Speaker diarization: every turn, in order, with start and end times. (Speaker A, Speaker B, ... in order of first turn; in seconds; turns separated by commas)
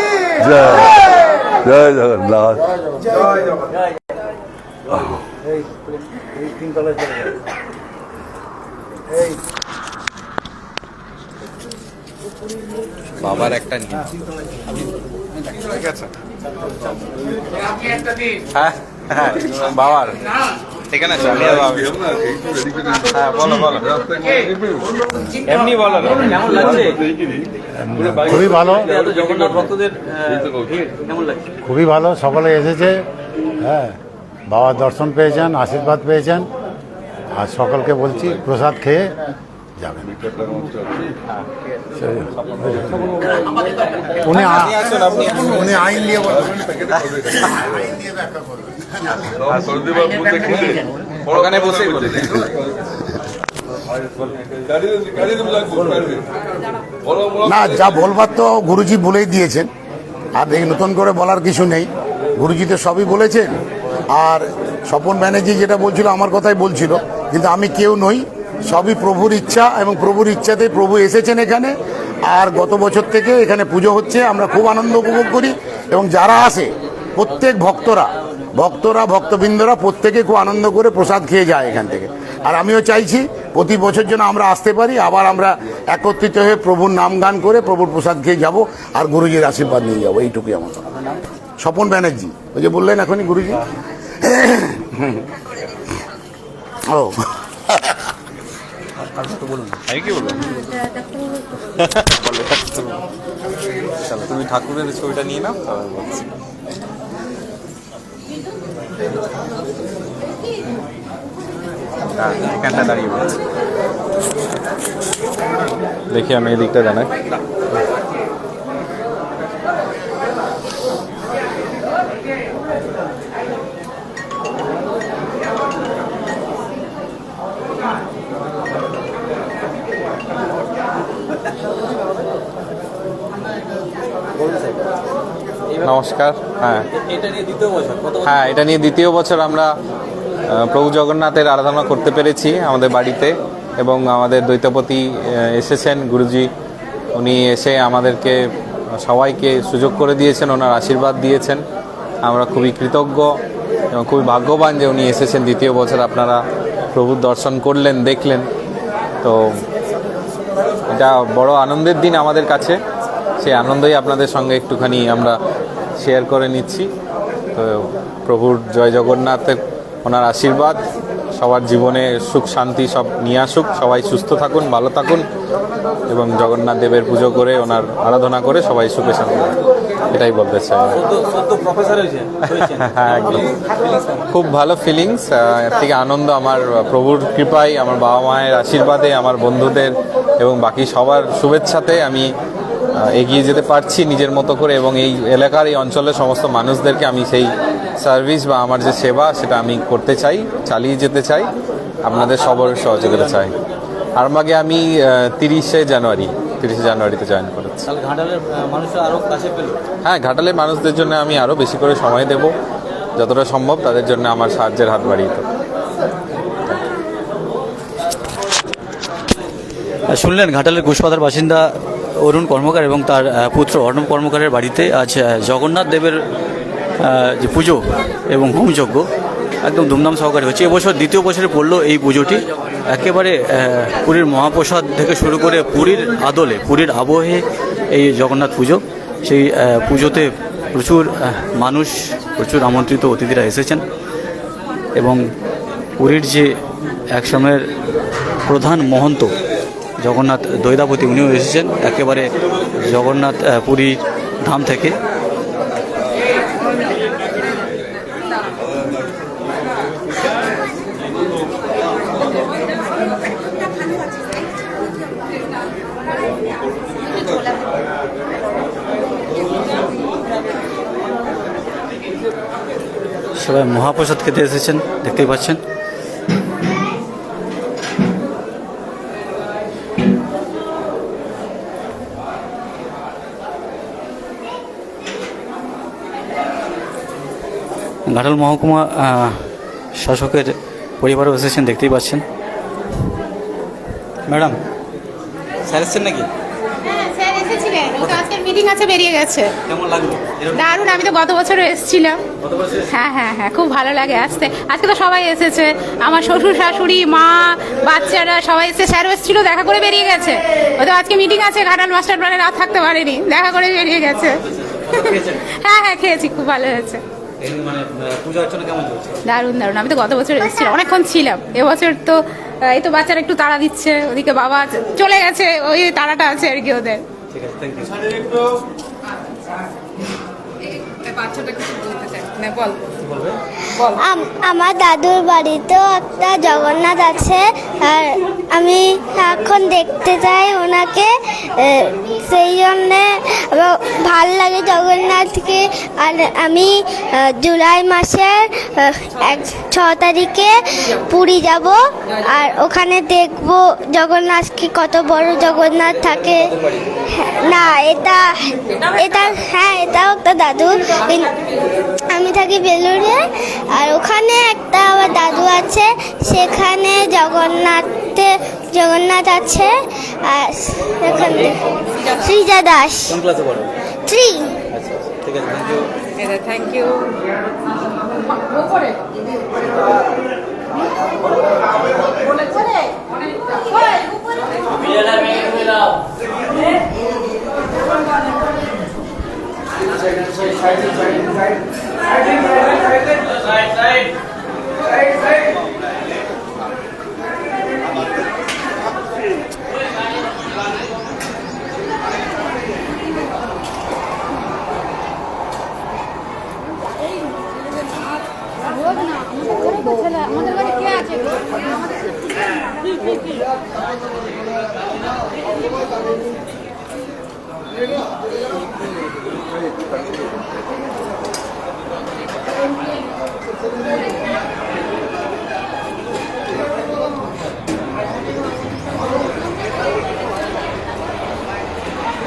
Speaker A: 0.4-1.0, Speaker A: 1.6-2.7, Speaker A: 4.9-5.2, Speaker B: 13.2-14.1, Speaker B: 15.5-16.1, Speaker B: 18.5-20.2, Speaker B: 20.9-21.9, Speaker A: 21.2-25.0, Speaker B: 23.1-23.8, Speaker C: 25.5-27.0, Speaker A: 26.2-29.7, Speaker D: 27.9-28.9, Speaker C: 28.6-31.5, Speaker A: 30.3-30.7, Speaker D: 31.6-33.0, Speaker D: 33.6-34.0, Speaker D: 34.5-36.5, Speaker D: 37.3-39.1, Speaker A: 40.1-41.1, Speaker D: 42.0-42.9, Speaker D: 44.2-44.8, Speaker B: 44.4-45.7, Speaker D: 45.4-46.4, Speaker A: 46.2-47.7, Speaker A: 49.3-52.8, Speaker B: 51.3-52.4, Speaker A: 53.9-56.3, Speaker A: 57.0-57.9, Speaker E: 57.5-59.7, Speaker E: 60.3-63.6, Speaker E: 64.1-90.8, Speaker E: 91.6-93.6, Speaker E: 94.2-95.2, Speaker E: 96.9-98.0, Speaker B: 99.2-100.5, Speaker B: 101.7-103.0, Speaker B: 104.0-106.2, Speaker B: 112.1-113.4, Speaker B: 116.1-117.1, Speaker C: 134.4-134.8, Speaker B: 135.8-136.9, Speaker C: 136.9-138.4, Speaker B: 138.2-139.7, Speaker B: 140.5-146.5, Speaker B: 147.2-148.4, Speaker B: 149.0-151.6, Speaker B: 152.2-153.4, Speaker B: 153.9-156.4, Speaker B: 156.9-158.5, Speaker B: 159.2-159.5, Speaker B: 160.9-162.8, Speaker B: 163.4-165.4, Speaker B: 166.0-166.9, Speaker B: 167.6-170.8, Speaker B: 171.4-175.2, Speaker B: 176.1-179.6, Speaker B: 180.1-181.0, Speaker C: 180.9-184.2, Speaker B: 182.7-183.5, Speaker B: 184.3-192.3, Speaker B: 192.9-201.5, Speaker B: 202.0-203.5, Speaker C: 202.1-203.5, Speaker B: 204.2-207.9, Speaker C: 207.8-209.8, Speaker B: 210.0-212.5, Speaker B: 213.2-215.4, Speaker C: 220.1-226.2, Speaker C: 227.0-229.1, Speaker C: 229.6-243.8, Speaker C: 245.0-245.2, Speaker C: 246.0-246.5, Speaker C: 247.1-247.6, Speaker C: 248.5-249.3, Speaker C: 250.0-252.3, Speaker C: 252.8-255.0, Speaker C: 273.4-275.6, Speaker C: 288.1-292.2, Speaker C: 294.3-294.6, Speaker C: 295.6-296.3, Speaker F: 296.9-299.6, Speaker C: 299.7-300.8, Speaker F: 300.6-302.2, Speaker C: 302.4-302.9, Speaker F: 302.9-317.0, Speaker C: 314.7-315.5, Speaker C: 317.4-319.2, Speaker F: 319.2-327.1, Speaker C: 327.3-328.2, Speaker F: 330.9-332.8, Speaker C: 333.0-333.4, Speaker G: 333.9-356.5, Speaker G: 357.1-361.4, Speaker G: 362.1-373.1, Speaker C: 371.1-371.5, Speaker C: 373.1-373.7, Speaker G: 374.1-374.6, Speaker C: 374.7-375.9, Speaker F: 376.2-377.1